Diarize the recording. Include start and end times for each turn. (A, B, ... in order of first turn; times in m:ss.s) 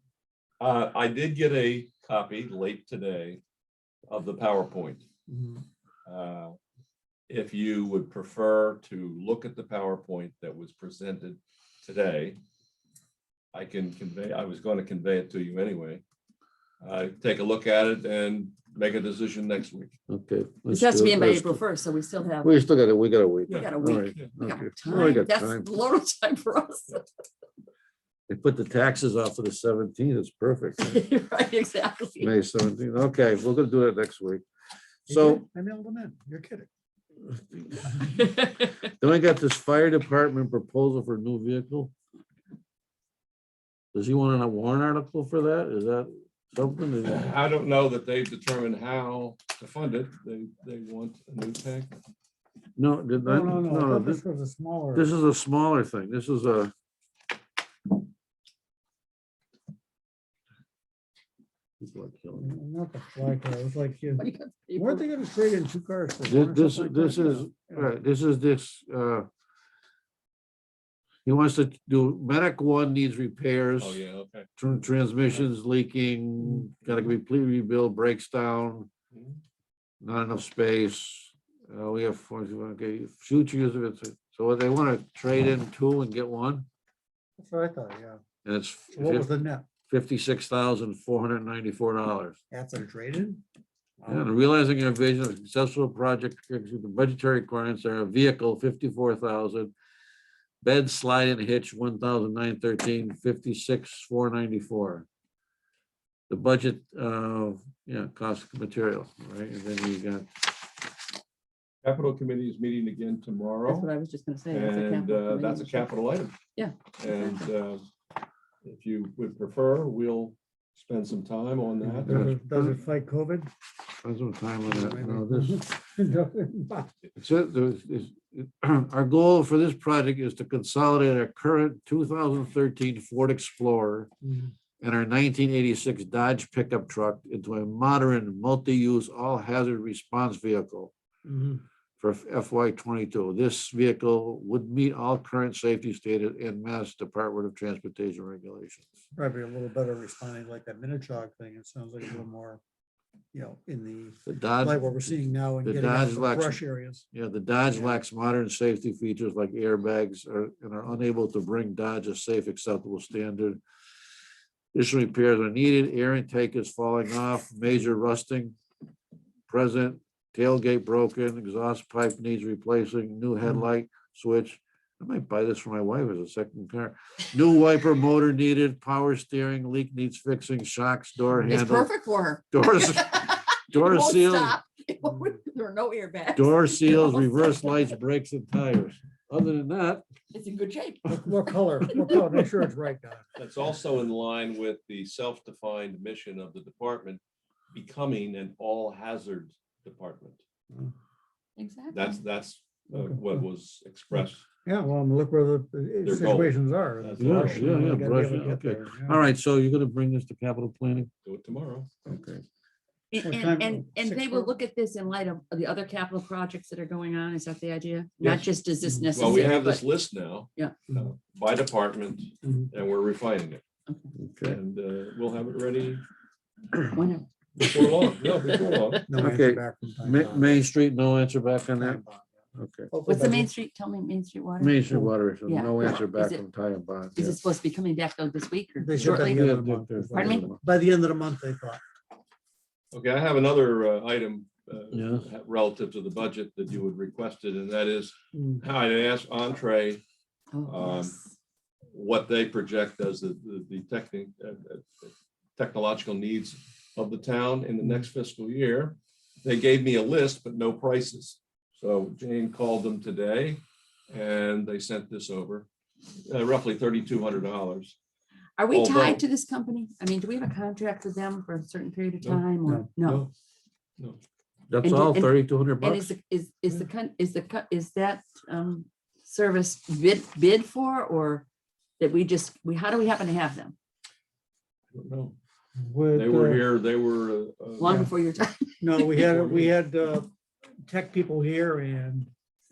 0:00.6-0:03.4 A
0:04.1-0:05.0 A
0:05.3-0:05.6 B
0:06.0-0:06.6 A
0:07.3-0:12.4 A
0:13.5-0:16.0 A
0:16.8-0:19.9 A
0:20.1-0:21.6 C
0:20.7-0:22.7 D
0:22.4-0:25.7 C
0:23.5-0:24.3 A
0:23.5-0:27.0 D
0:28.3-0:31.0 C
0:30.8-0:32.3 D
0:32.2-0:34.4 C
0:35.0-0:35.4 C
0:35.1-0:36.7 B
0:37.3-0:38.0 C
0:38.0-0:38.8 D
0:39.0-0:41.9 C
0:43.9-0:47.3 C
0:47.0-0:52.0 A
0:52.8-0:54.2 C
0:53.2-0:55.1 B
0:54.9-0:56.7 C
1:01.8-1:02.5 C
1:02.4-1:08.0 B
1:04.2-1:05.0 D
1:06.2-1:09.3 C
1:11.2-1:14.0 C
1:13.8-1:14.5 A
1:14.6-1:18.9 C
1:19.1-1:19.4 A
1:20.0-1:26.6 C
1:27.4-1:28.2 B
1:28.4-1:29.3 C
1:28.9-1:29.6 B
1:29.9-1:32.4 C
1:32.5-1:33.4 B
1:34.1-1:39.7 C
1:40.6-1:45.0 C
1:46.3-1:50.6 C
1:51.8-1:53.9 A
1:53.7-1:55.9 D
1:54.5-1:56.4 A
1:56.6-1:57.5 D
1:57.0-1:57.8 A
1:58.6-2:02.3 A
2:01.8-2:03.5 B
2:02.0-2:02.8 C
2:04.0-2:05.7 C
2:04.7-2:06.9 B
2:07.2-2:14.1 C
2:14.2-2:14.5 B
2:14.8-2:20.9 C
2:21.2-2:21.6 B
2:22.0-2:29.0 C
2:29.1-2:32.6 B
2:33.3-2:37.0 B
2:34.3-2:36.6 C
2:37.1-2:43.6 C
2:44.7-2:48.6 C
2:49.5-3:01.9 C
3:01.5-3:07.9 D
3:02.5-3:04.6 C
3:06.3-3:10.0 C
3:10.3-3:12.2 D
3:11.0-3:13.3 B
3:13.4-3:17.2 A
3:17.7-3:20.4 A
3:21.6-3:22.2 D
3:21.9-3:24.4 A
3:22.9-3:23.4 B
3:24.6-3:29.2 B
3:26.0-3:27.7 A
3:27.2-3:31.1 C
3:31.2-3:31.9 A
3:32.0-3:32.4 C
3:33.1-3:39.8 D
3:33.2-3:34.5 B
3:38.2-3:39.4 B
3:39.1-3:43.6 A
3:42.4-3:42.7 B
3:44.2-3:44.6 C
3:44.4-3:46.0 A
3:46.7-3:47.0 C
3:46.9-3:47.2 D
3:47.6-3:49.1 A
3:48.3-3:49.0 D
3:49.1-3:50.6 B
3:49.1-3:52.0 C
3:51.7-3:53.5 B
3:52.6-3:52.9 C
3:53.1-3:54.8 D
3:54.6-3:57.4 C
3:55.5-3:56.4 D
3:57.1-3:59.5 D
3:58.8-4:01.8 B
3:59.0-4:00.6 C
4:00.1-4:00.5 D
4:02.9-4:10.0 A
4:04.9-4:05.2 C
4:08.3-4:08.6 B
4:10.5-4:11.2 D
4:10.6-4:11.1 A
4:11.9-4:25.7 A
4:26.2-4:28.0 A
4:28.6-4:33.2 D
4:28.7-4:29.2 A
4:33.0-4:33.3 A
4:34.7-4:36.1 C
4:34.8-4:41.4 D
4:42.0-4:43.8 D
4:44.9-4:45.3 A
4:45.8-4:46.7 B
4:46.1-4:48.0 A
4:47.8-4:48.9 D
4:47.8-4:48.1 B
4:48.8-4:50.3 B
4:49.1-4:49.8 A
4:50.8-4:52.3 B